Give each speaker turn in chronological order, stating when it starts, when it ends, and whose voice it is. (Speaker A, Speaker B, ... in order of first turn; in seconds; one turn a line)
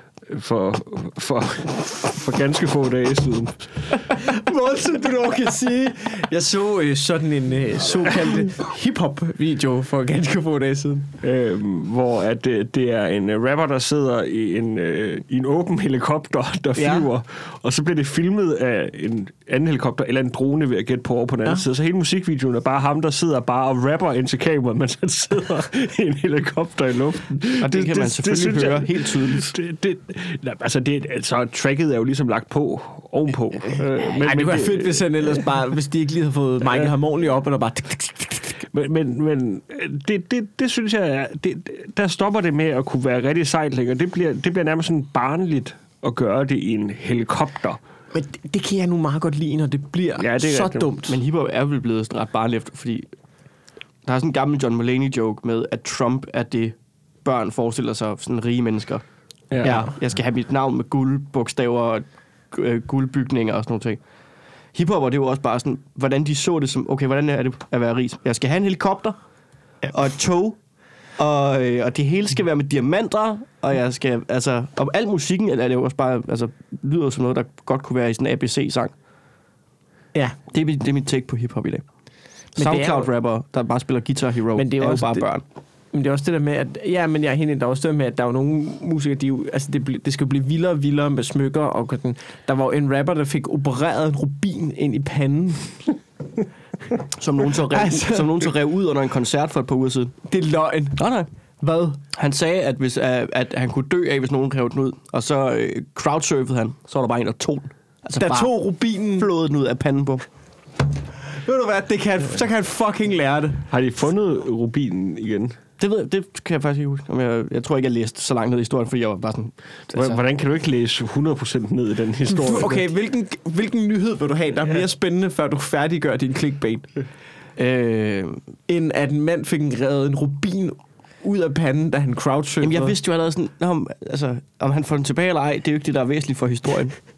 Speaker A: 0.2-3.9
Speaker B: 4.1-11.1
Speaker A: 11.2-35.3
Speaker B: 16.8-17.1
Speaker C: 27.6-29.6
Speaker B: 34.0-38.6
Speaker A: 38.6-47.8
Speaker B: 48.1-51.2
Speaker A: 50.2-50.9
Speaker C: 51.1-53.1
Speaker C: 54.0-59.0
Speaker A: 59.5-59.8
Speaker C: 59.6-64.0
Speaker B: 59.6-59.9
Speaker C: 64.7-69.2
Speaker C: 69.8-70.6
Speaker C: 71.2-78.9
Speaker C: 80.5-81.8
Speaker C: 82.6-85.4
Speaker B: 82.6-83.1
Speaker B: 84.6-85.3
Speaker B: 85.9-95.8
Speaker C: 97.2-100.2
Speaker B: 97.5-98.5
Speaker B: 100.3-101.0
Speaker C: 101.0-101.3
Speaker B: 101.6-102.0
Speaker C: 102.1-108.5
Speaker B: 108.2-109.3
Speaker C: 109.2-110.2
Speaker B: 111.2-113.7
Speaker A: 113.7-115.6
Speaker C: 115.8-120.2
Speaker A: 119.9-122.8
Speaker B: 122.4-126.9
Speaker C: 127.6-128.4
Speaker B: 128.7-133.0
Speaker C: 132.6-137.0